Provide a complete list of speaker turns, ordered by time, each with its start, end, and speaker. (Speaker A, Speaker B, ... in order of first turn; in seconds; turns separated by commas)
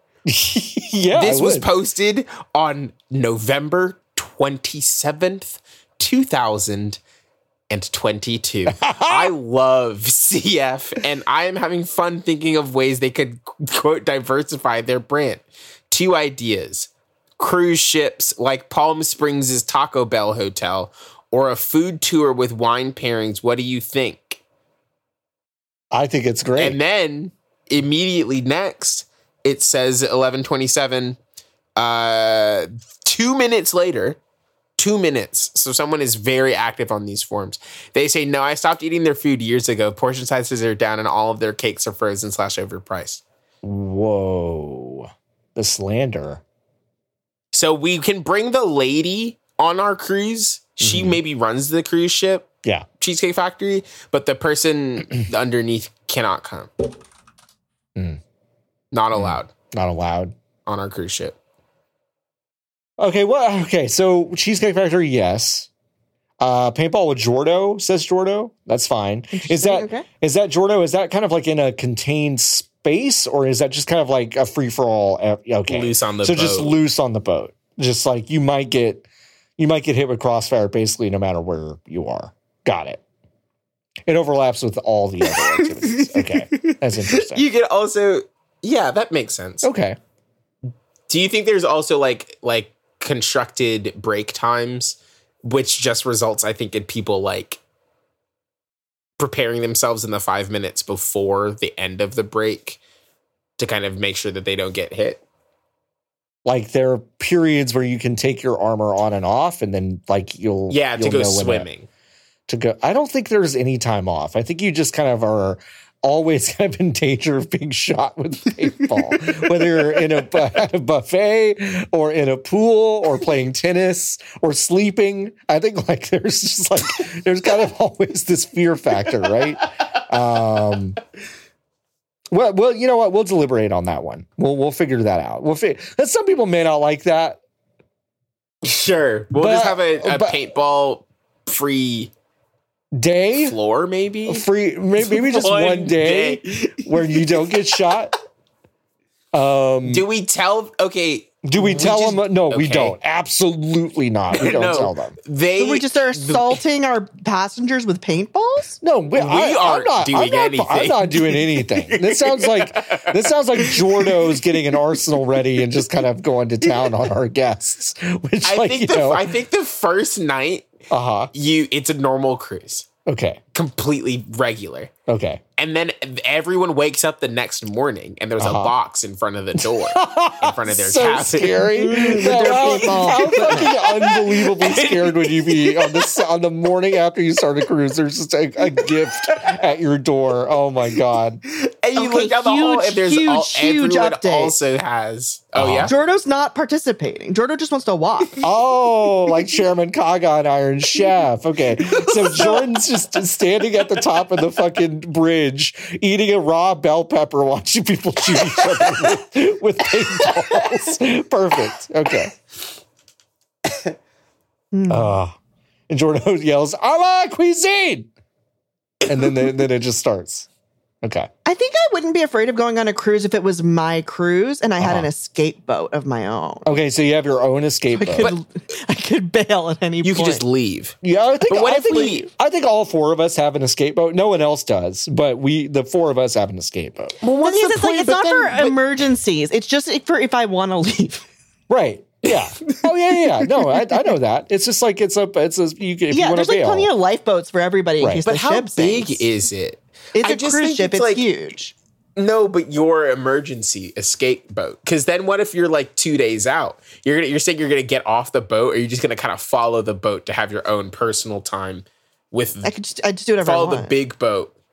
Speaker A: 0.2-1.7, Speaker B: 1.1-7.0, Speaker B: 7.7-24.4, Speaker A: 8.7-9.3, Speaker A: 25.9-26.8, Speaker B: 26.6-31.2, Speaker B: 31.8-34.2, Speaker B: 34.8-43.2, Speaker A: 43.6-46.4, Speaker B: 47.5-52.5, Speaker A: 50.8-51.2, Speaker B: 53.0-56.7, Speaker B: 58.9-59.5, Speaker A: 59.1-60.3, Speaker B: 60.6-61.4, Speaker A: 63.0-65.7, Speaker A: 66.4-79.0, Speaker C: 69.3-70.0, Speaker B: 75.7-76.8, Speaker A: 79.6-83.0, Speaker A: 84.1-87.4, Speaker B: 85.3-89.7, Speaker A: 89.6-90.0, Speaker B: 91.1-97.6, Speaker B: 99.2-102.8, Speaker B: 103.6-105.2, Speaker A: 106.4-111.7, Speaker B: 110.7-111.9, Speaker A: 112.5-131.0, Speaker A: 132.3-137.4, Speaker B: 138.6-142.1, Speaker A: 139.3-140.4, Speaker A: 142.9-143.6, Speaker B: 143.4-144.4, Speaker A: 144.3-148.1, Speaker B: 145.0-147.6, Speaker A: 149.3-150.1, Speaker B: 149.8-152.9, Speaker A: 151.4-155.2, Speaker B: 154.3-156.6, Speaker C: 155.6-158.8, Speaker A: 158.8-169.3, Speaker B: 159.2-164.4, Speaker B: 168.4-170.7, Speaker A: 170.9-171.3, Speaker B: 171.3-172.8, Speaker A: 173.1-173.4, Speaker B: 173.5-174.9, Speaker A: 175.1-175.4, Speaker B: 175.6-186.1, Speaker A: 178.4-178.7, Speaker A: 179.6-191.4, Speaker C: 181.7-183.8, Speaker B: 188.8-189.6, Speaker B: 191.5-195.9, Speaker C: 191.9-194.5, Speaker A: 195.6-195.9, Speaker C: 195.9-198.4, Speaker A: 198.4-212.3, Speaker B: 201.9-202.6, Speaker C: 214.7-215.1, Speaker A: 214.9-215.3, Speaker A: 215.9-218.1, Speaker A: 219.1-220.5, Speaker A: 221.0-221.3, Speaker C: 221.4-226.7, Speaker A: 224.8-225.1, Speaker A: 226.7-228.3, Speaker C: 227.9-230.4, Speaker B: 230.0-232.3, Speaker A: 231.0-237.2, Speaker B: 237.2-238.8, Speaker C: 237.4-241.2, Speaker A: 241.7-246.9, Speaker B: 242.2-244.0, Speaker C: 246.1-249.3, Speaker B: 248.2-251.2, Speaker C: 250.1-251.7, Speaker B: 252.2-262.7, Speaker C: 262.6-263.9, Speaker B: 263.4-264.5